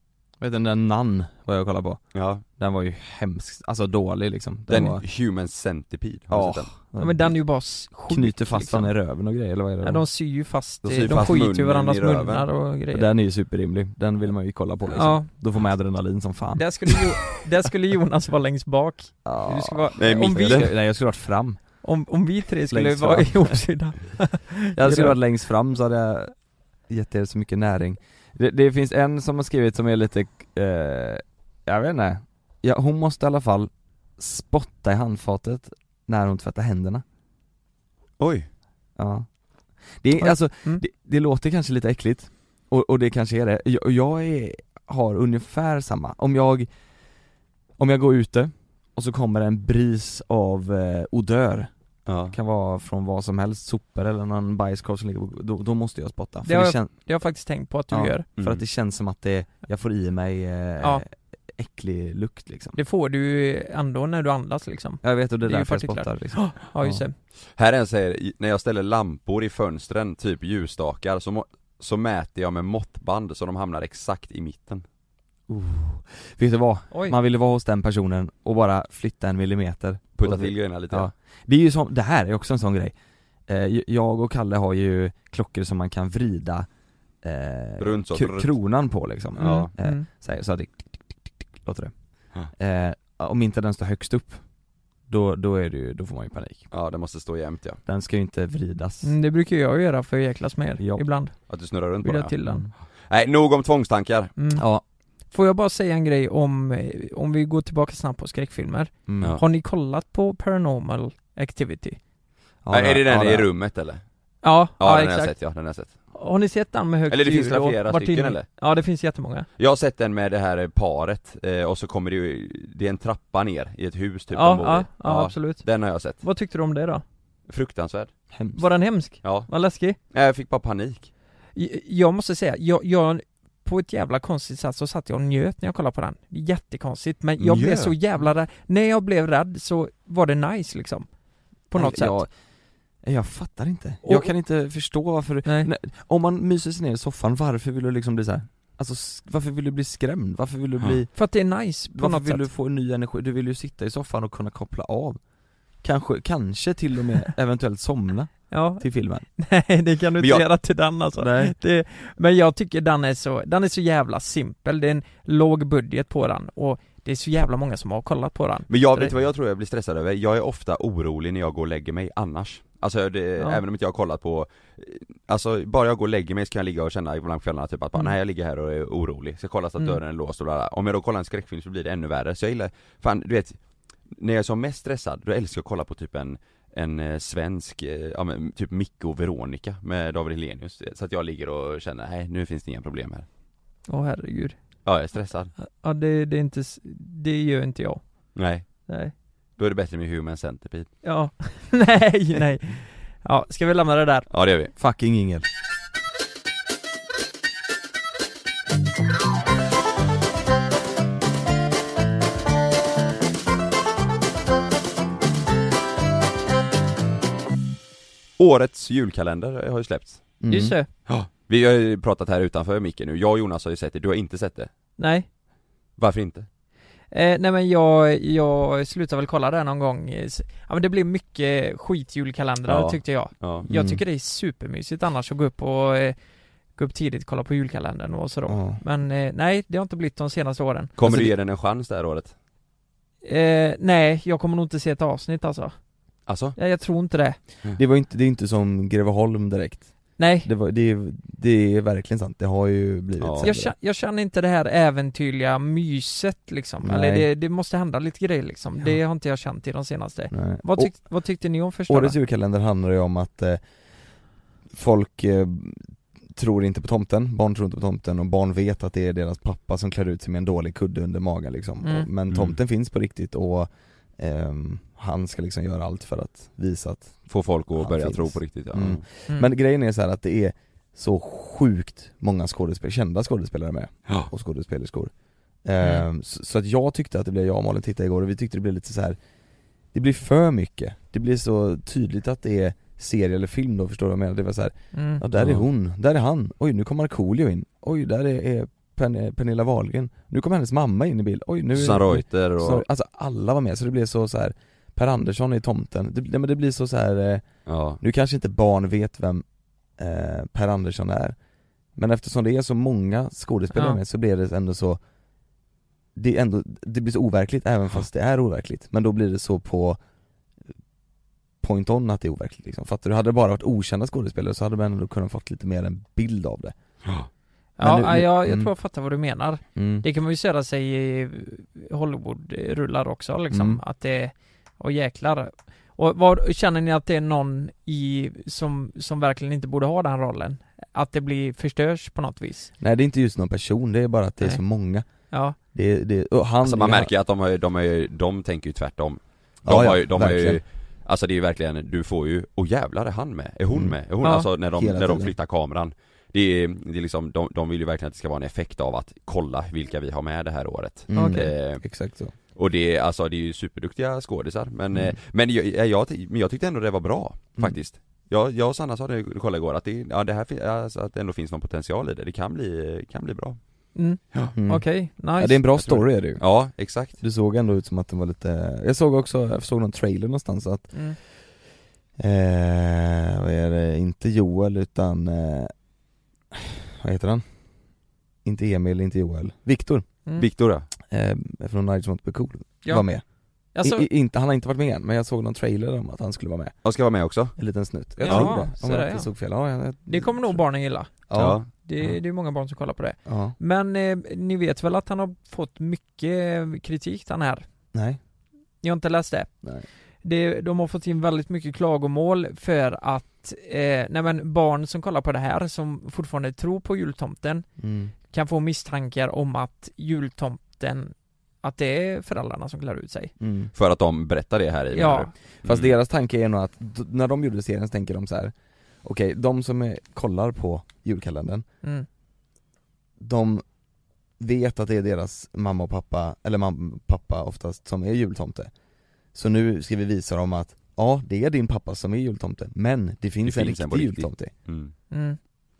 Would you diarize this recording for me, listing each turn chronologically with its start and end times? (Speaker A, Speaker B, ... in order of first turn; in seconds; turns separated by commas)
Speaker A: 0.4-2.0, Speaker B: 2.1-2.4, Speaker A: 2.5-5.0, Speaker B: 4.7-6.7, Speaker A: 6.3-7.3, Speaker C: 7.0-8.9, Speaker A: 8.1-10.0, Speaker C: 9.8-13.1, Speaker B: 10.8-12.4, Speaker A: 12.9-17.1, Speaker C: 14.9-15.3, Speaker C: 16.6-20.6, Speaker A: 19.2-21.6, Speaker B: 20.0-20.7, Speaker C: 21.8-25.1, Speaker A: 22.7-23.6, Speaker A: 24.8-26.3, Speaker A: 26.9-37.0, Speaker B: 38.2-38.5, Speaker A: 39.0-39.3, Speaker A: 40.0-46.7, Speaker C: 40.2-40.8, Speaker A: 47.8-51.7, Speaker B: 52.1-52.3, Speaker A: 52.3-56.9, Speaker C: 56.5-58.2, Speaker A: 57.9-62.8, Speaker C: 62.8-67.1, Speaker A: 65.0-67.0, Speaker B: 67.6-74.8, Speaker A: 75.5-82.9, Speaker C: 76.9-77.2, Speaker B: 80.2-81.1, Speaker A: 83.5-86.7, Speaker A: 87.2-91.9, Speaker B: 87.8-88.5, Speaker C: 89.4-90.0, Speaker B: 89.4-89.7, Speaker A: 92.5-94.4, Speaker A: 95.1-96.7, Speaker B: 96.7-97.8, Speaker A: 97.8-99.1, Speaker C: 99.0-101.5, Speaker A: 100.8-101.1, Speaker B: 101.5-102.3, Speaker C: 102.0-102.7, Speaker A: 102.4-102.7, Speaker B: 103.1-104.3, Speaker C: 104.4-104.6, Speaker A: 104.6-104.8, Speaker C: 105.3-112.0, Speaker A: 109.1-109.4, Speaker A: 112.6-113.5, Speaker B: 112.7-114.0, Speaker C: 114.4-115.3, Speaker B: 114.8-115.9, Speaker C: 116.1-119.5, Speaker B: 117.1-118.5, Speaker B: 119.6-126.2, Speaker C: 124.3-125.6, Speaker C: 126.2-127.0, Speaker B: 127.5-128.1, Speaker A: 128.3-128.7, Speaker C: 128.6-130.0, Speaker B: 129.2-129.5, Speaker B: 130.1-131.1, Speaker C: 131.6-141.1, Speaker B: 137.4-137.9, Speaker C: 141.7-142.2, Speaker A: 141.7-142.3, Speaker A: 143.0-151.1, Speaker C: 144.0-144.3, Speaker C: 151.1-152.4, Speaker A: 151.9-155.2, Speaker A: 155.8-159.2, Speaker C: 158.5-158.8, Speaker C: 159.4-169.1, Speaker A: 161.2-161.6, Speaker B: 168.7-183.6, Speaker B: 184.1-193.2, Speaker C: 193.9-194.6, Speaker B: 194.8-195.5, Speaker C: 195.7-198.1, Speaker B: 198.3-198.7, Speaker C: 198.9-199.1, Speaker B: 199.6-200.9, Speaker C: 201.0-204.3, Speaker B: 204.3-204.7, Speaker A: 204.8-205.4, Speaker B: 218.4-220.3, Speaker A: 220.4-220.8, Speaker C: 220.5-220.9, Speaker B: 221.1-224.7, Speaker C: 225.0-225.2, Speaker B: 226.0-226.5, Speaker C: 227.1-236.2, Speaker B: 232.7-233.7, Speaker A: 233.6-234.0, Speaker C: 236.8-240.9, Speaker A: 238.5-238.8, Speaker B: 241.0-242.3, Speaker A: 241.0-241.3, Speaker C: 243.2-245.7, Speaker B: 246.3-246.6, Speaker C: 246.6-247.4, Speaker A: 247.8-253.7, Speaker C: 250.2-250.5, Speaker B: 253.2-253.5, Speaker C: 253.4-262.2, Speaker A: 256.8-257.3, Speaker A: 260.3-261.1, Speaker A: 261.8-263.6, Speaker A: 264.7-285.1, Speaker C: 271.8-272.1, Speaker B: 272.3-272.6, Speaker B: 277.3-279.0, Speaker A: 285.6-289.2, Speaker A: 289.9-307.4, Speaker C: 294.9-295.2, Speaker B: 295.4-295.6, Speaker B: 301.7-302.8, Speaker B: 307.7-308.0, Speaker A: 308.0-309.4, Speaker A: 310.0-311.4, Speaker A: 311.9-315.0, Speaker C: 313.7-314.0, Speaker A: 316.1-320.0, Speaker A: 321.6-326.7, Speaker C: 327.8-342.7, Speaker A: 327.8-328.7, Speaker A: 329.7-330.1, Speaker A: 333.5-333.8, Speaker A: 342.8-345.1, Speaker C: 345.3-345.6, Speaker A: 345.7-347.1, Speaker B: 346.6-361.8, Speaker A: 349.6-350.6, Speaker A: 353.7-355.3, Speaker A: 361.1-362.3, Speaker C: 361.1-361.5, Speaker B: 362.5-373.6, Speaker C: 373.9-375.6, Speaker A: 374.5-374.8, Speaker A: 375.4-376.4, Speaker B: 375.8-377.2, Speaker A: 377.2-380.9, Speaker A: 382.2-385.7, Speaker A: 386.5-387.4, Speaker A: 388.4-390.0, Speaker B: 390.4-390.9, Speaker A: 391.1-393.2, Speaker C: 393.7-394.1, Speaker A: 393.8-396.8, Speaker B: 396.8-397.5, Speaker A: 397.6-400.6, Speaker C: 398.2-399.3, Speaker B: 398.2-398.5, Speaker C: 400.1-401.2, Speaker A: 401.3-402.1, Speaker B: 401.3-401.7, Speaker C: 401.8-407.6, Speaker A: 403.2-403.6, Speaker A: 407.9-408.2, Speaker C: 408.8-409.5, Speaker C: 410.2-417.6, Speaker A: 417.8-418.1, Speaker C: 418.3-423.3, Speaker A: 423.4-423.7, Speaker B: 423.7-425.9, Speaker C: 424.9-425.3, Speaker A: 425.6-428.5, Speaker A: 429.0-431.6, Speaker A: 433.2-433.6, Speaker A: 434.4-438.7, Speaker A: 439.3-444.5, Speaker B: 443.4-444.9, Speaker C: 445.1-445.4